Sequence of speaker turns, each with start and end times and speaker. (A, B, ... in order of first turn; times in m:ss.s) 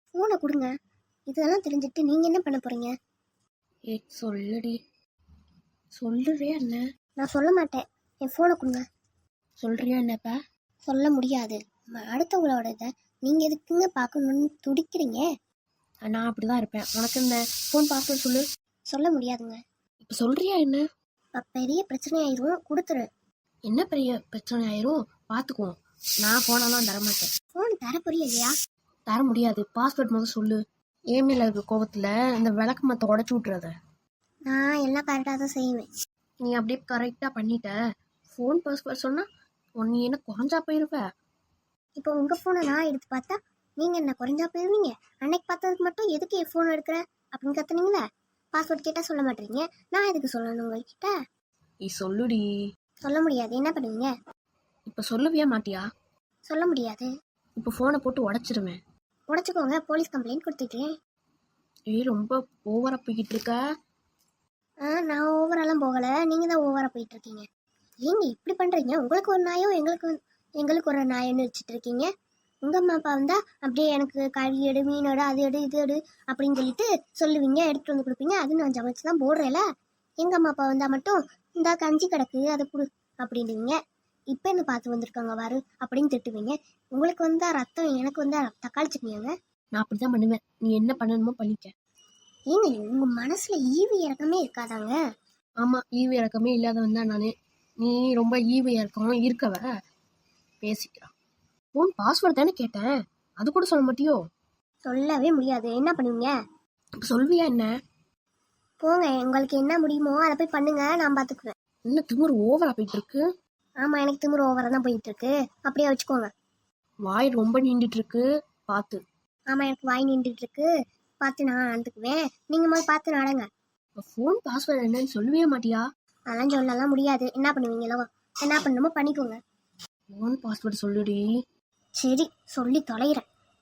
0:00.2-0:00.7 A
0:01.3-0:02.9 A
0:03.9-0:04.8 B
0:06.0-0:06.8 B
0:07.2-0:08.8 A
0:09.6-0:10.3 B
0:10.9-0:15.2 A
0:16.1-0:18.4 B
0:18.9-0:19.6 A
0:20.1-0:20.8 B
0:21.4-0:23.0 A
0:23.7-0:27.3 B
0:27.6-0:28.5 A
0:29.1-0:30.6 B
0:31.1-0:33.7 B
0:34.5-0:35.9 A
0:36.4-0:37.7 B
0:38.3-0:39.2 B
0:39.8-0:41.0 B
0:42.0-0:48.0 A
0:48.6-0:51.1 A
0:51.8-0:52.4 B
0:53.0-0:54.1 A
0:54.9-0:55.8 B
0:56.5-0:57.1 A
0:57.6-0:58.8 B
0:59.3-1:00.9 A
1:01.9-1:03.6 B
1:04.9-1:07.4 A
1:08.0-1:12.1 A
1:12.6-1:19.6 A
1:20.2-1:23.8 A
1:24.3-1:29.3 A
1:29.8-1:31.7 B
1:32.5-1:35.0 A
1:35.6-1:39.6 B
1:40.6-1:41.1 B
1:41.8-1:44.2 B
1:44.9-1:46.3 A
1:47.0-1:47.7 B
1:48.8-1:51.5 A
1:51.9-1:53.2 B
1:53.8-1:56.3 A
1:57.0-1:59.0 B
1:59.5-2:00.7 A
2:01.2-2:03.5 A
2:04.0-2:05.8 B
2:06.3-2:09.4 A
2:10.2-2:11.2 B
2:12.0-2:13.2 A